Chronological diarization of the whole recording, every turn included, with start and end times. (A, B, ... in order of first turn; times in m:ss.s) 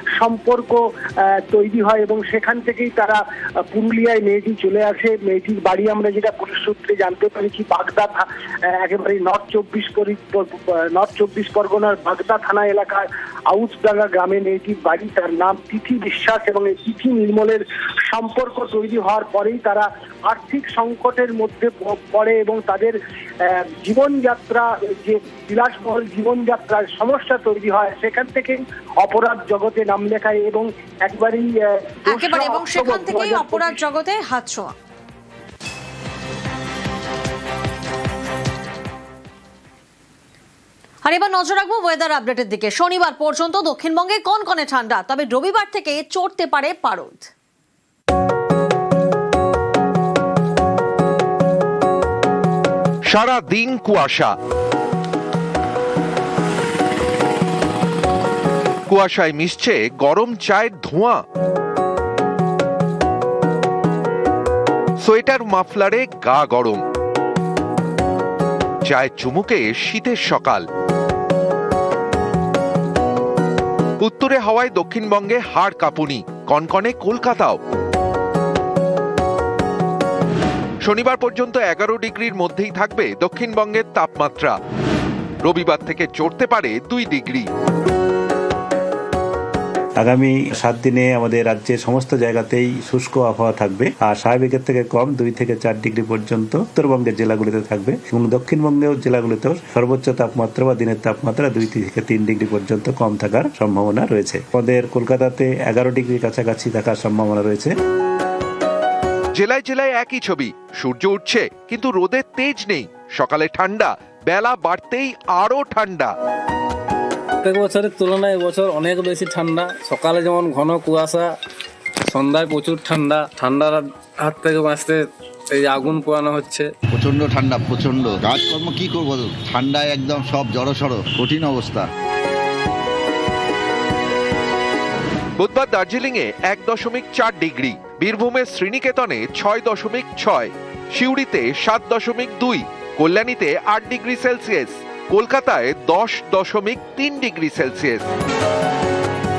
0:00.2-0:23.0 A
0:23.5-0:33.8 A
0:32.1-0:34.7 B
0:41.0-0:47.3 B
0:53.1-0:54.3 C
0:58.9-1:01.2 C
1:05.0-1:06.8 C
1:08.8-1:10.6 C
1:14.0-1:17.6 C
1:20.8-1:24.6 C
1:25.4-1:27.5 C
1:30.0-1:47.7 D
1:49.3-1:56.1 C
1:57.4-2:01.3 E
2:02.1-2:06.7 E
2:06.9-2:11.9 F
2:15.4-2:28.1 C